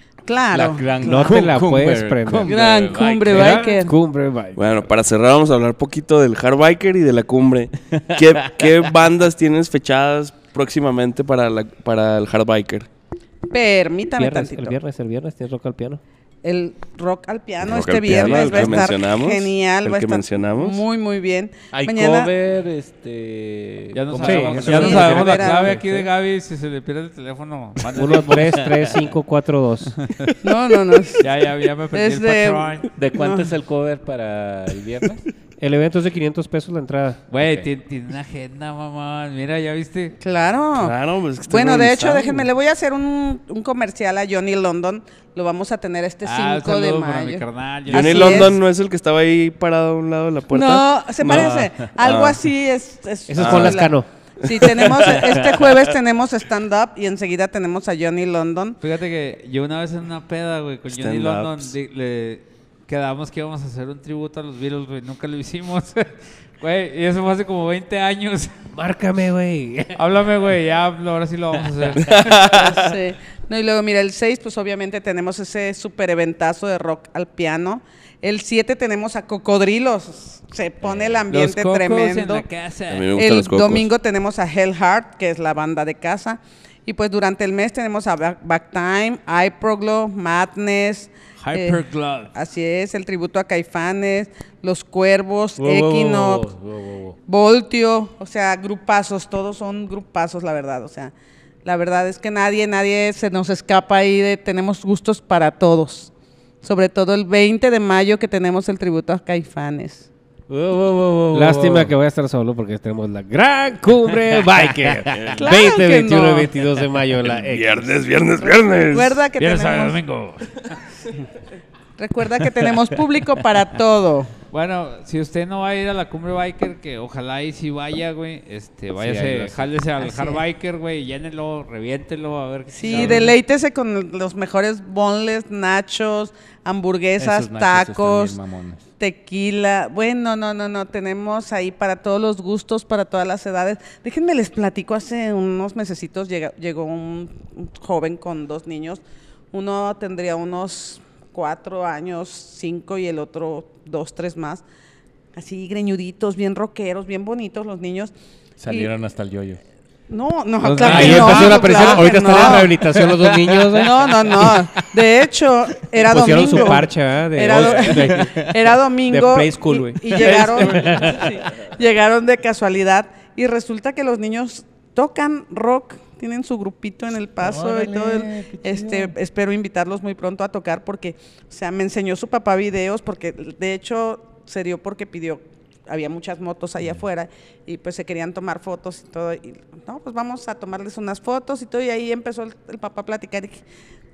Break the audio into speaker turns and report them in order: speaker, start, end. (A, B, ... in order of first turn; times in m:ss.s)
0:00.2-0:01.4 A
0:00.5-0:03.7 B
0:01.0-0:04.6 C
0:02.4-0:03.9 A
0:04.6-0:12.9 D
0:07.9-0:08.7 B
0:13.5-0:14.8 A
0:14.2-0:16.0 C
0:16.4-0:22.3 A
0:17.6-0:20.8 D
0:18.1-0:18.9 B
0:21.7-0:26.1 B
0:23.9-0:28.7 E
0:24.2-0:25.2 C
0:24.7-0:25.8 A
0:27.9-0:30.0 C
0:28.1-0:29.0 B
0:30.1-0:30.3 E
0:30.4-0:31.2 A
0:31.2-0:32.9 E
0:31.9-0:33.5 A
0:33.0-0:35.2 B
0:35.6-0:37.2 C
0:37.3-0:40.1 E
0:37.4-0:37.7 B
0:40.2-0:40.9 A
0:40.8-0:42.4 D
0:41.5-0:48.5 A
0:46.2-0:48.6 E
0:47.9-0:52.4 D
0:50.5-0:58.8 A
0:51.3-0:51.9 B
0:53.3-0:54.1 C
0:53.4-0:53.9 D
0:54.4-0:55.5 D
0:55.1-0:55.4 B
0:58.8-1:08.5 E
1:00.9-1:01.7 D
1:08.7-1:10.0 C
1:10.0-1:12.4 E
1:11.9-1:12.9 D
1:12.5-1:22.4 A
1:20.8-1:21.2 B
1:21.3-1:23.2 E
1:22.9-1:23.9 D
1:23.2-1:31.8 A
1:31.4-1:32.3 E
1:32.3-1:36.5 A
1:35.6-1:37.2 B
1:37.3-1:41.1 A
1:41.6-1:46.1 A
1:46.6-1:50.1 A
1:50.5-1:51.9 B
1:51.3-1:57.9 C
1:54.3-1:55.3 B
1:55.4-1:56.5 A
1:57.3-1:59.2 D
1:58.9-2:00.0 A
1:59.4-2:00.7 E
2:02.0-2:04.3 A
2:04.5-2:13.4 E
2:09.0-2:09.7 B
2:10.0-2:10.4 A
2:12.7-2:18.4 A
2:12.9-2:13.3 B
2:17.2-2:18.9 B
2:19.0-2:34.6 A
2:35.3-2:38.1 A
2:38.6-2:39.6 B
2:40.1-2:42.8 A
2:40.6-2:41.7 E
2:40.8-2:44.2 C
2:40.8-2:44.6 B
2:43.7-3:13.6 A
2:46.0-2:48.5 C
2:47.5-2:48.7 B
2:49.1-2:51.4 C
2:50.2-2:51.2 B
2:57.4-2:59.1 B